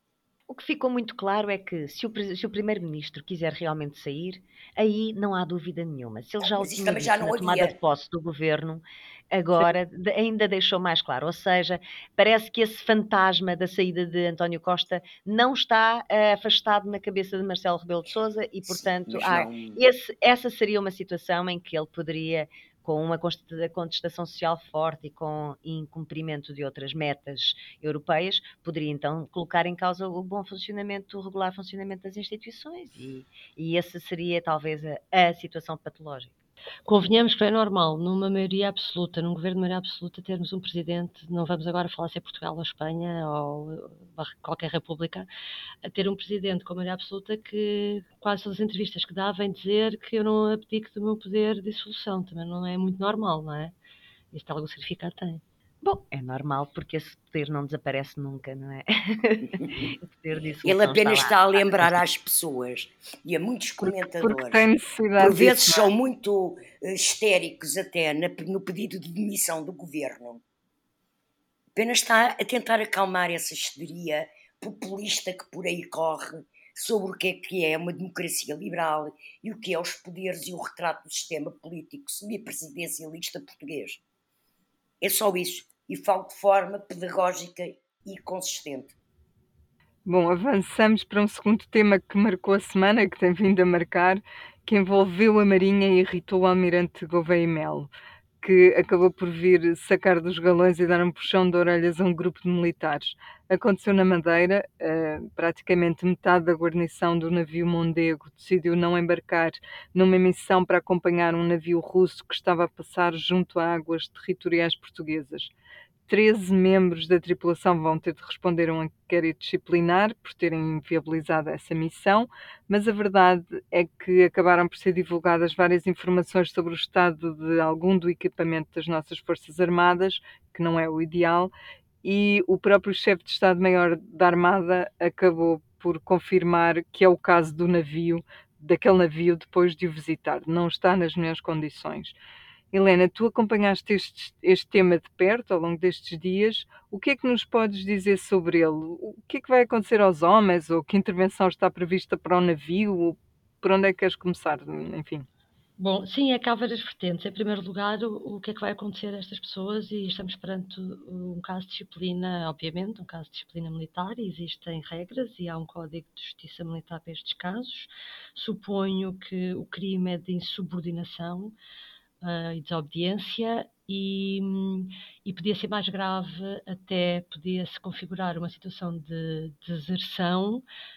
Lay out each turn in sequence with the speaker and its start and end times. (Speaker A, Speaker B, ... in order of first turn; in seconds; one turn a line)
Speaker A: 0.5-36.3
Speaker B: 6.4-7.8
Speaker B: 18.6-19.8
Speaker C: 36.9-45.3
Speaker C: 45.8-53.7
Speaker C: 54.3-55.4
Speaker A: 55.8-62.0
Speaker B: 60.6-64.7
Speaker D: 63.8-65.9
Speaker B: 65.2-70.4
Speaker B: 71.7-84.0
Speaker B: 85.0-89.0
Speaker D: 90.0-97.9
Speaker D: 98.4-115.5
Speaker D: 116.1-131.5
Speaker D: 132.0-142.1
Speaker D: 142.7-155.2
Speaker C: 155.8-171.5
Speaker C: 172.2-180.6